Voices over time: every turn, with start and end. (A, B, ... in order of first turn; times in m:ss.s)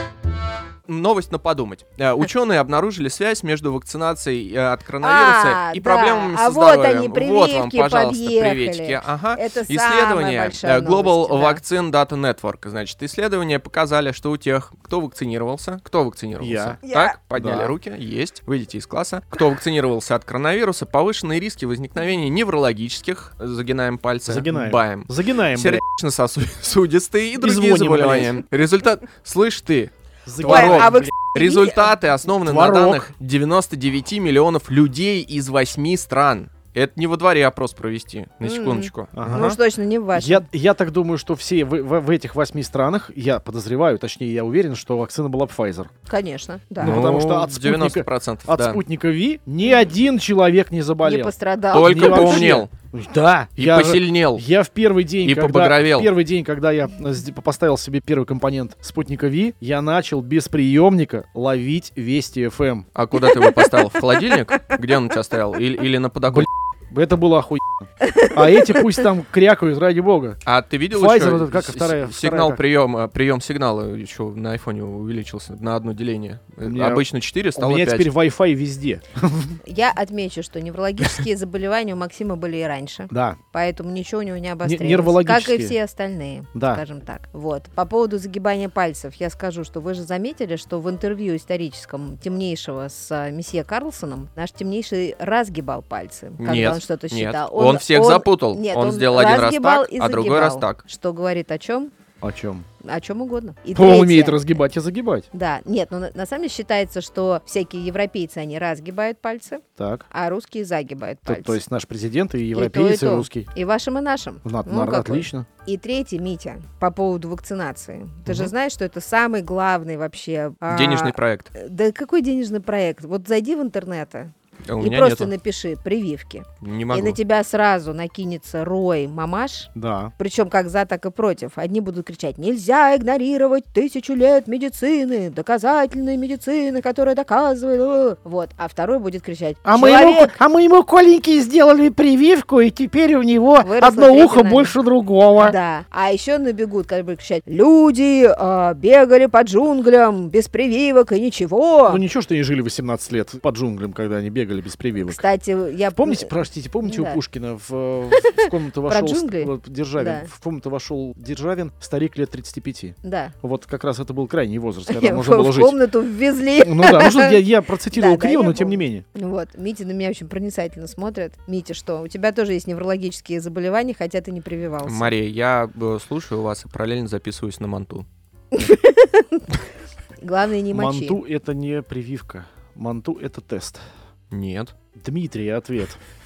0:00.9-0:39.5 A
0:05.0-0:11.6 B
0:16.4-0:16.8 C
0:16.8-0:17.2 B
0:17.4-0:17.7 C
0:24.2-0:25.8 C
0:27.4-0:28.4 C
0:30.2-0:31.1 C
0:30.4-0:31.9 B
0:32.4-0:33.1 C
0:38.4-0:40.4 B
0:39.1-0:39.6 C
0:40.1-0:45.9 C
0:46.1-0:47.2 B
0:46.8-1:02.9 C
0:46.8-0:48.8 A
0:51.0-0:52.6 B
0:51.7-0:52.7 A
0:53.6-0:54.4 A
0:55.2-0:56.1 A
1:02.9-1:06.5 A
1:03.4-1:03.7 B
1:06.3-1:10.4 C
1:10.4-1:18.1 A
1:10.9-1:12.6 C
1:16.6-1:19.6 C
1:19.6-1:41.9 B
1:23.1-1:23.4 C
1:24.6-1:25.8 C
1:26.5-1:26.8 C
1:36.4-1:40.8 A
1:42.2-1:42.6 C
1:42.8-1:44.6 B
1:43.7-1:45.3 C
1:45.3-1:51.6 B
1:49.8-1:50.0 C
1:51.2-1:53.5 C
1:52.5-2:20.4 B
1:54.4-1:55.5 C
2:00.7-2:01.5 A
2:04.6-2:05.3 A
2:06.6-2:07.2 A
2:09.7-2:10.1 C
2:19.6-2:25.6 C
2:23.6-2:24.7 B
2:25.4-2:32.0 B
2:31.9-2:35.2 C
2:35.1-2:36.3 B
2:35.9-2:45.8 C
2:36.8-2:37.2 B
2:38.2-2:40.3 B
2:43.0-2:43.3 B
2:44.9-2:47.4 B
2:46.6-2:49.0 C
2:47.9-2:55.1 B
2:54.8-2:58.0 A
2:58.5-2:59.6 B
3:00.2-3:01.2 B
3:00.7-3:03.8 C
3:04.3-3:04.7 A
3:05.0-3:06.0 C